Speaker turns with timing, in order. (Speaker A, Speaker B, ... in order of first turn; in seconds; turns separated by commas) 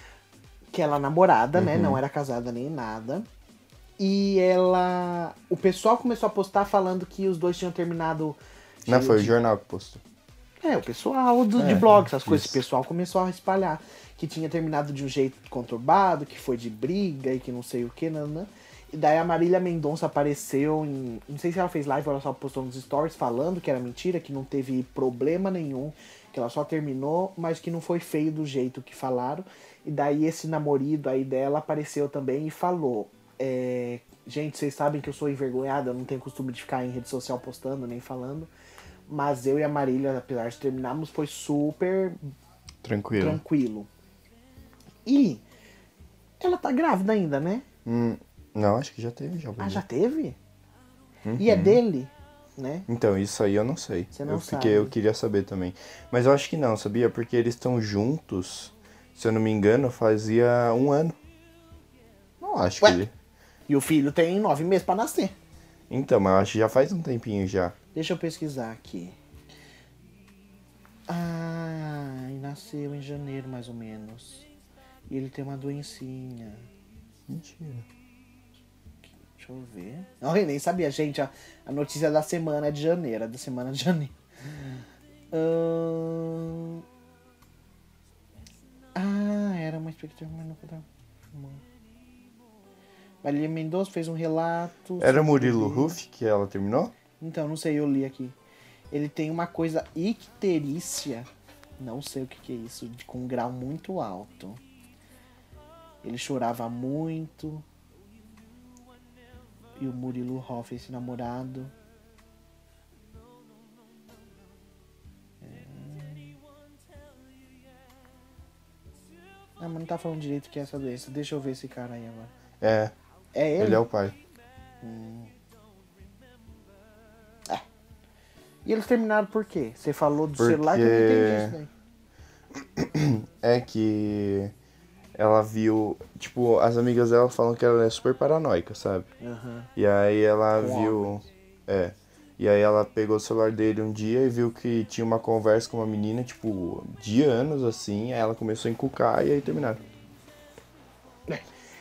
Speaker A: 0.7-3.3, Speaker B: 1.5-2.0, Speaker A: 4.0-9.3, Speaker B: 8.9-10.0, Speaker A: 10.6-38.5, Speaker B: 11.6-12.6, Speaker A: 39.1-42.2, Speaker B: 42.8-43.4, Speaker A: 43.1-43.9, Speaker A: 45.1-45.4, Speaker A: 46.4-47.7, Speaker B: 47.9-49.8, Speaker A: 49.6-50.4, Speaker B: 51.2-51.8, Speaker A: 51.4-52.9, Speaker B: 52.9-61.2, Speaker A: 54.1-54.9, Speaker B: 62.4-63.1, Speaker A: 63.7-65.3, Speaker B: 65.9-67.8, Speaker A: 68.0-69.2, Speaker A: 71.1-74.5, Speaker A: 75.1-76.7, Speaker B: 77.3-77.9, Speaker A: 79.4-86.8, Speaker A: 89.0-91.6, Speaker A: 93.2-96.0, Speaker B: 95.0-96.9, Speaker A: 97.2-98.4, Speaker A: 98.9-101.3, Speaker A: 101.8-104.6, Speaker A: 106.0-107.7, Speaker A: 109.8-111.7, Speaker A: 115.4-116.4, Speaker A: 119.6-122.3, Speaker B: 122.6-122.9, Speaker A: 123.3-123.8, Speaker B: 123.6-124.2, Speaker A: 124.8-125.3, Speaker A: 128.7-131.7, Speaker B: 130.4-131.6, Speaker B: 132.5-134.5, Speaker B: 135.2-139.1, Speaker A: 139.2-139.7, Speaker B: 139.8-149.8, Speaker A: 140.6-141.2